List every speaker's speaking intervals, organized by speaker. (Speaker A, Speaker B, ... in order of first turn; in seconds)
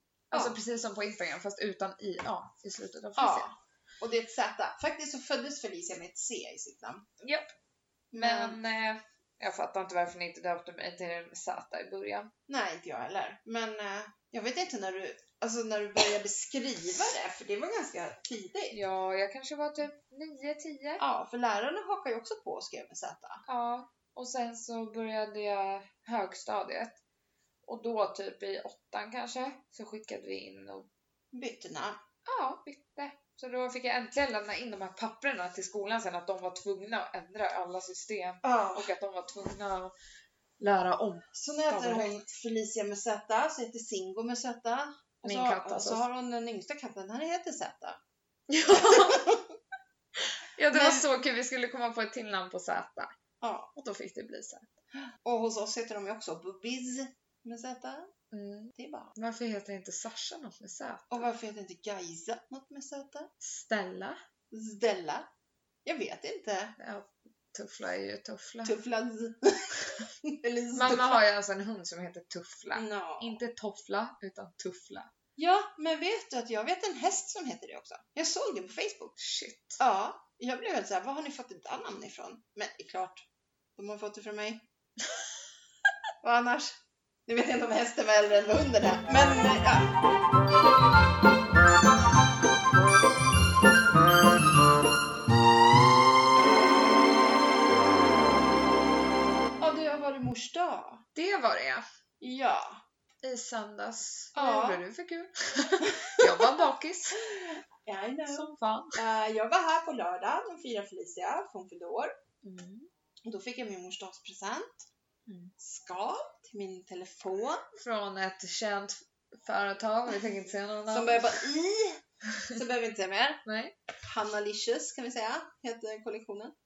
Speaker A: 0.3-0.6, 3.2-7.0, 8.1-8.6, 12.5-18.8, 21.0-23.4, 31.3-32.0, 38.4-38.9, 41.3-48.0, 48.6-49.5, 50.7-51.1, 53.4-53.7, 55.2-58.1, 58.7-59.1, 61.1-63.3, 64.5-65.3, 65.8-66.8, 68.6-71.2, 72.7-73.4, 75.4-79.2, 79.8-83.2, 83.8-84.6, 86.2-89.9, 99.6-101.0, 102.2-102.8, 104.3-104.8, 105.8-106.6, 107.2-112.1, 113.2-114.9, 115.6-117.6, 120.9-123.4, 124.0-126.5
Speaker B: 0.3-3.5, 7.2-7.5, 8.1-12.3, 18.7-21.0, 23.4-27.0, 27.6-30.9, 32.2-39.9, 40.6-42.1, 45.2-46.0, 48.5-49.2, 50.2-53.1, 53.7-54.7, 58.3-61.3, 63.4-64.2, 66.8-68.8, 70.7-75.1, 79.2-79.8, 101.1-101.8, 103.2-107.2, 108.3-109.0, 112.4-112.9, 115.2-115.5, 117.8-121.4, 123.4-123.7